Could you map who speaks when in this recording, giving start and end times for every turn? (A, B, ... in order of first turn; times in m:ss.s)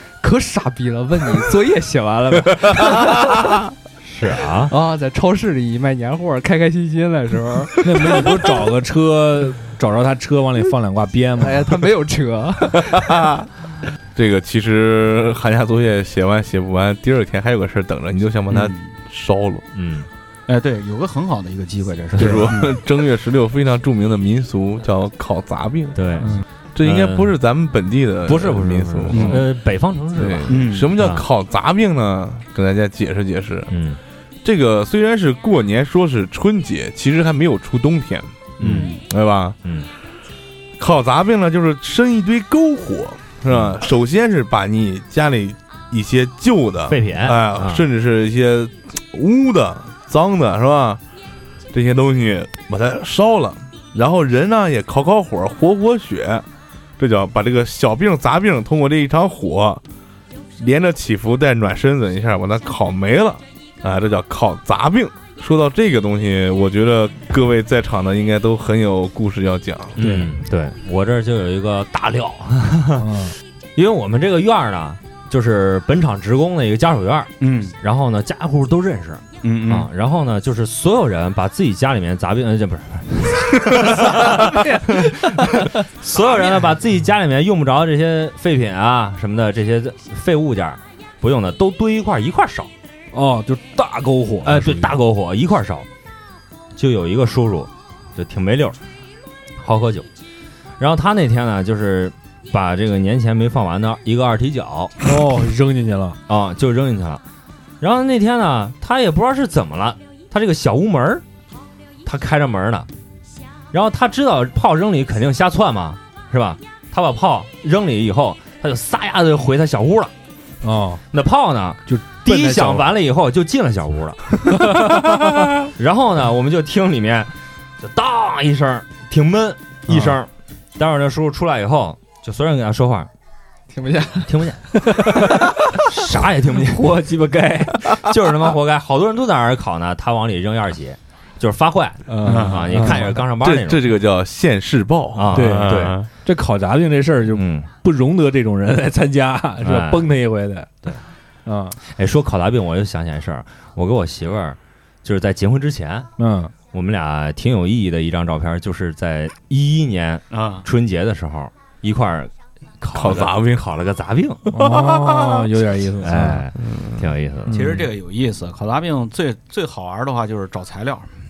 0:00.2-0:03.4 A
0:04.0-0:04.7 B
0:04.7-0:08.2 A
0:07.8-0:11.8 C
0:11.4-0:13.1 A
0:12.9-0:13.5 D
0:14.1-0:19.6 D
0:18.5-0:18.9 E
0:19.7-0:20.1 B
0:20.5-0:22.8 E
0:22.1-0:26.0 D
0:25.9-0:27.3 B
0:26.7-0:29.4 D
0:28.2-0:31.2 B
0:29.1-0:29.4 E
0:30.2-0:33.7 D
0:30.5-0:31.0 E
0:33.7-0:34.0 B
0:34.4-0:38.3 D
0:38.6-0:39.0 B
0:38.6-0:39.0 E
0:39.0-0:39.6 D
0:40.8-0:51.0 D
0:43.5-0:43.8 B
0:46.9-0:47.8 B
0:51.7-0:56.4 D
0:57.0-0:59.8 D
1:00.6-1:10.0 D
1:10.0-1:13.1 B
1:10.0-1:10.3 C
1:13.0-1:13.3 C
1:13.8-1:32.7 B
1:17.4-1:17.7 E
1:19.4-1:19.9 E
1:26.2-1:26.6 E
1:33.1-1:34.9 C
1:34.4-1:35.9 B
1:36.8-1:38.8 B
1:39.6-1:40.1 B
1:40.8-1:44.9 B
1:45.0-1:46.2 C
1:46.3-1:47.2 B
1:47.8-1:51.2 B
1:52.0-1:52.9 B
1:53.7-2:00.1 B
2:00.6-2:01.0 C
2:01.1-2:04.3 B
2:01.9-2:02.9 C
2:04.6-2:05.0 C
2:05.6-2:13.1 B
2:09.9-2:10.2 C
2:13.7-2:14.4 A
2:14.3-2:17.0 B
2:14.9-2:15.6 C
2:16.6-2:17.9 C
2:17.8-2:23.9 B
2:22.1-2:23.1 C
2:22.2-2:22.9 E
2:22.8-2:26.1 D
2:25.1-2:26.0 B
2:25.3-2:30.9 C
2:27.3-2:27.7 B
2:29.6-2:30.1 B
2:31.4-2:31.8 C
2:31.8-2:36.1 B
2:36.2-2:36.5 C
2:36.7-2:44.5 B
2:40.3-2:40.6 E
2:42.9-2:43.7 D
2:44.5-2:46.5 C
2:44.5-2:45.5 D
2:46.0-2:47.6 B
2:46.6-2:47.0 D
2:47.4-2:47.9 C
2:47.5-2:51.1 E